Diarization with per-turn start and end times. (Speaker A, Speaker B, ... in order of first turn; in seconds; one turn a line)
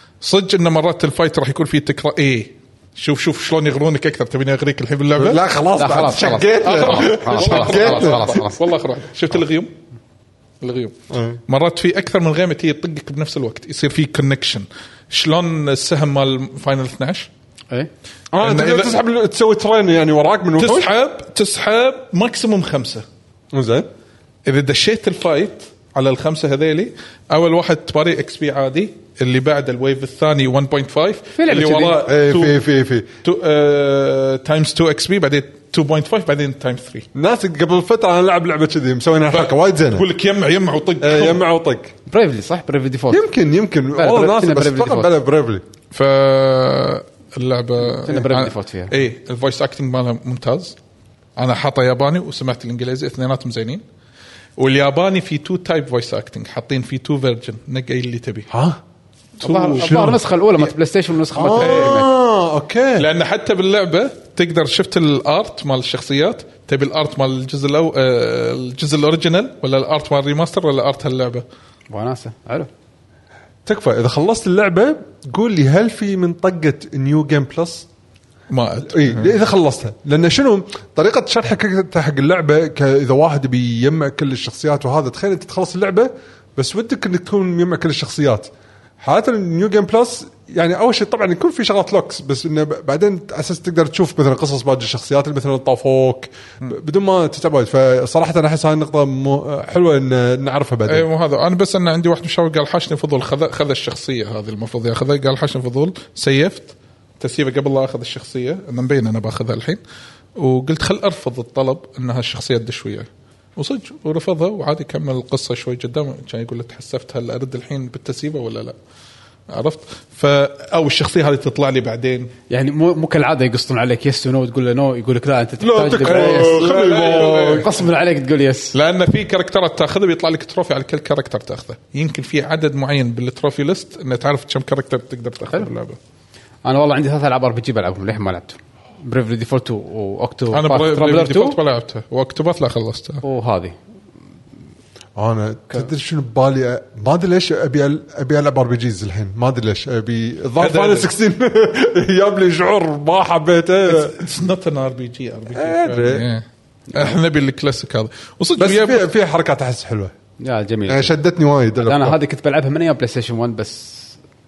Speaker A: 0.2-5.5
Speaker B: 5.2-8.4
Speaker C: 5.8-8.6
Speaker A: 6.3-9.7
Speaker A: 10.6-17.3
Speaker B: 11.1-11.4
Speaker B: 18.3-20.9
Speaker A: 18.4-19.0
Speaker A: 20.6-23.1
Speaker B: 23.5-23.9
Speaker A: 24.4-32.6
Speaker C: 31.4-32.0
Speaker B: 32.0-33.1
Speaker A: 33.2-37.0
Speaker B: 37.1-40.0
Speaker A: 39.3-41.4
Speaker B: 41.0-41.9
Speaker C: 42.1-43.3
Speaker B: 43.1-45.6
Speaker C: 43.9-45.1
Speaker A: 45.9-50.8
Speaker C: 47.9-48.9
Speaker A: 51.4-53.8
Speaker A: 54.6-58.5
Speaker B: 58.5-58.8
Speaker A: 59.4-60.1
Speaker C: 59.4-62.1
Speaker B: 59.8-60.2
Speaker B: 61.3-63.1
Speaker A: 61.5-62.0
Speaker A: 63.0-71.4
Speaker C: 71.9-72.7
Speaker B: 73.7-77.9
Speaker A: 78.5-79.3
Speaker B: 78.8-101.0
Speaker A: 100.9-109.8
Speaker A: 110.4-118.8
Speaker A: 119.5-122.3
Speaker C: 122.5-128.7
Speaker B: 125.6-127.7
Speaker A: 126.0-127.8
Speaker A: 128.7-136.0
Speaker C: 136.6-141.6
Speaker A: 140.5-143.2
Speaker C: 143.2-143.8
Speaker B: 145.2-154.1
Speaker A: 150.6-151.1
Speaker A: 153.9-159.1
Speaker B: 155.5-156.3
Speaker B: 158.6-160.1
Speaker C: 160.4-161.1
Speaker B: 160.9-162.2
Speaker C: 161.8-164.2